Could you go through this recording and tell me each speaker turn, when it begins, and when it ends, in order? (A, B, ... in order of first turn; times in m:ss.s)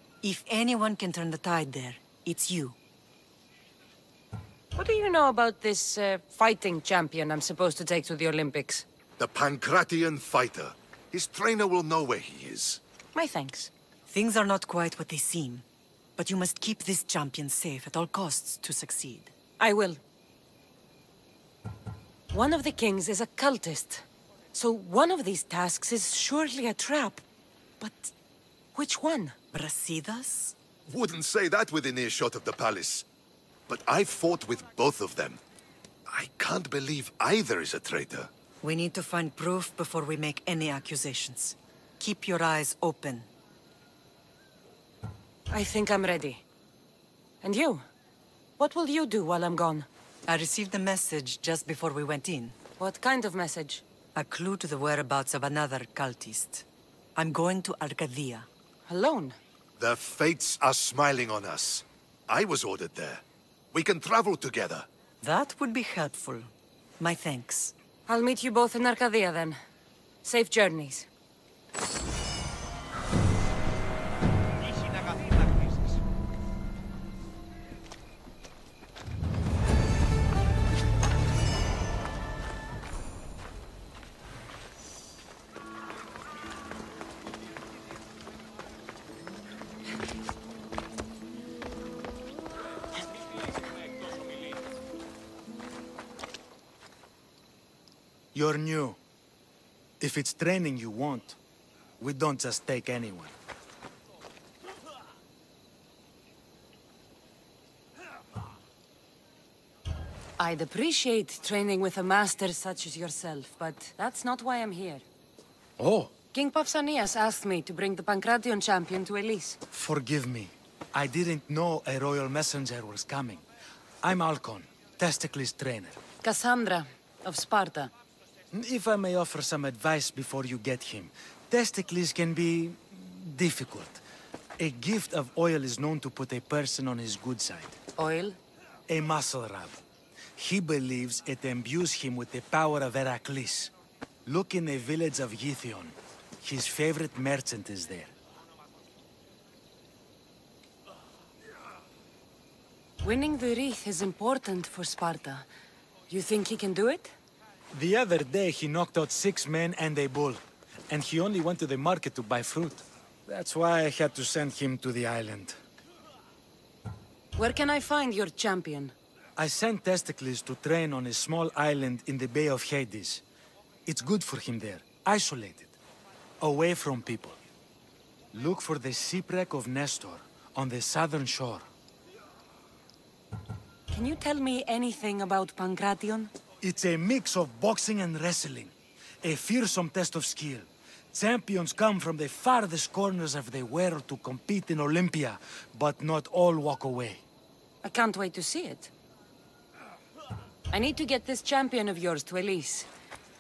0:00.2-0:02.8 A
0:04.7-0:08.8 B
0:09.2-0:12.8 C
0:13.1-0:13.7 B
0:14.1-0:15.6 A
0:16.2-0:19.3 A
0:19.6-0:20.0 B
0:22.3-0:27.2 B
0:27.8-0:28.1 B
0:28.7-0:29.4 B
0:29.5-0:30.5 A
0:30.9-0:33.0 C
0:33.7-0:35.4 C
0:36.1-0:38.3 C
0:38.6-0:43.3 A
0:45.5-0:46.4 B
0:47.4-0:47.8 B
0:48.6-0:49.9 B
0:50.3-0:52.6 A
0:52.8-0:53.8 B
0:54.1-0:58.5 A
0:58.9-0:59.4 B
0:59.8-1:04.9 C
1:05.2-1:07.7 A
1:08.1-1:09.6 B
1:10.2-1:11.1 B
1:38.3-1:39.0 D
1:40.0-1:41.4 D
1:42.0-1:43.3 D
1:50.4-1:55.0 B
1:55.8-1:56.1 D
1:56.3-1:59.6 B
1:59.7-2:03.4 D
2:04.0-2:06.0 D
2:06.2-2:07.9 B
2:08.5-2:14.0 D
2:14.6-2:17.8 D
2:18.0-2:18.4 B
2:18.9-2:19.8 D
2:20.4-2:23.7 D
2:24.2-2:28.1 D
2:33.0-2:35.4 B
2:36.1-2:37.1 B
2:37.7-2:45.6 D
2:47.4-2:48.9 B
2:49.4-2:53.2 D
2:53.8-2:55.8 D
2:56.4-2:57.4 D
2:58.3-3:01.6 D
3:03.9-3:06.3 B
3:06.6-3:17.2 D
3:17.8-3:18.9 B
3:20.7-3:22.9 B